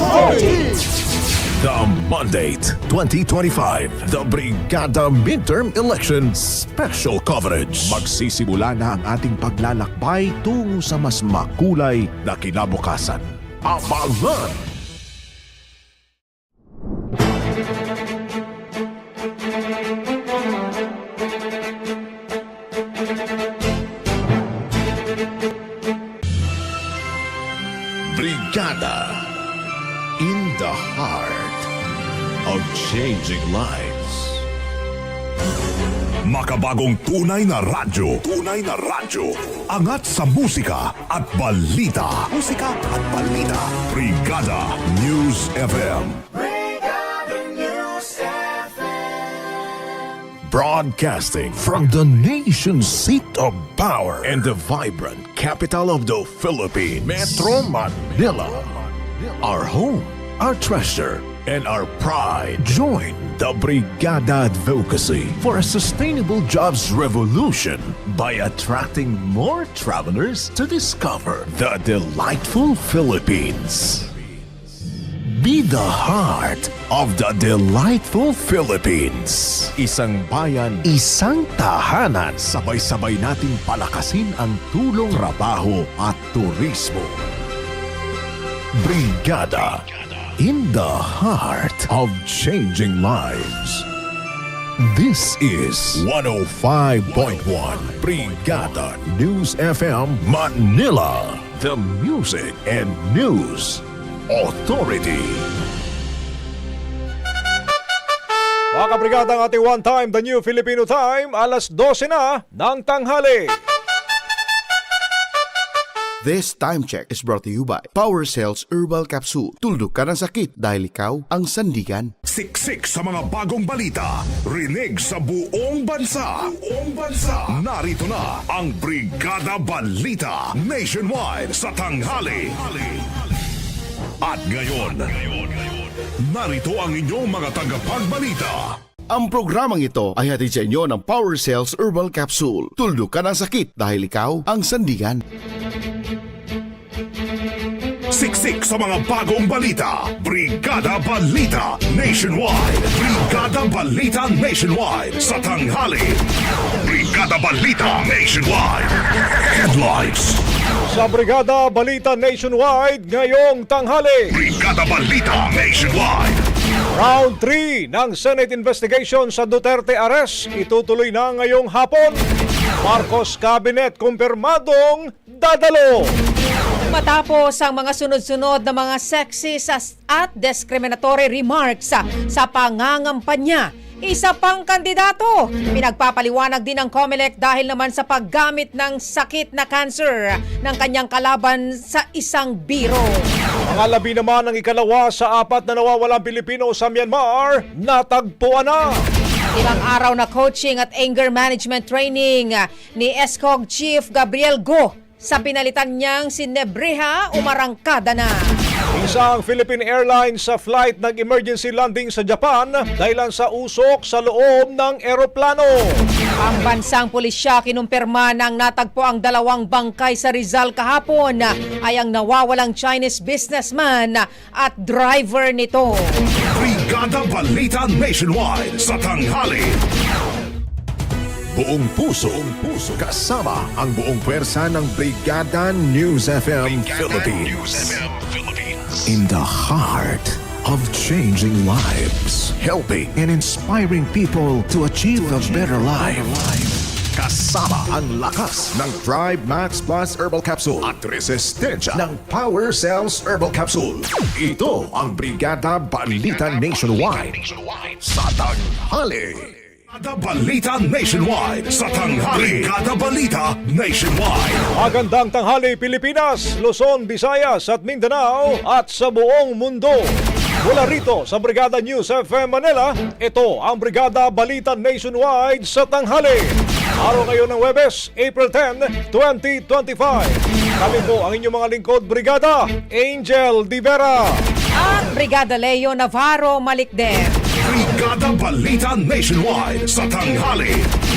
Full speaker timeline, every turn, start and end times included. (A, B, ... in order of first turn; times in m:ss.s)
0:01.6-0:14.6 A
0:28.0-0:29.3 A
0:30.2-0:31.7 A
0:32.4-0:34.4 A
0:36.2-0:46.2 B
0:50.5-1:14.2 A
1:15.2-1:27.2 A
1:28.8-1:29.8 A
1:30.4-1:33.8 A
1:34.8-1:45.5 A
1:48.7-1:53.5 C
1:56.2-2:02.1 D
2:02.3-2:13.0 B
2:14.2-2:15.7 B
2:16.2-2:18.7 B
2:19.1-2:25.2 D
2:28.1-2:36.2 B
2:36.8-2:40.4 B
2:40.9-2:44.3 C
2:44.3-2:46.4 B
2:46.9-2:52.2 C
2:52.8-2:56.1 C
2:56.9-3:13.2 E
3:13.7-3:18.9 C
3:19.5-3:28.5 E
3:28.9-3:35.9 C
3:36.4-3:46.2 E
3:46.4-3:49.8 B
3:51.5-3:58.3 A
3:58.9-4:19.6 A
4:19.9-4:24.7 B
4:24.7-4:30.0 C
4:30.6-4:44.3 C
4:44.8-4:47.4 E
4:47.6-4:50.9 B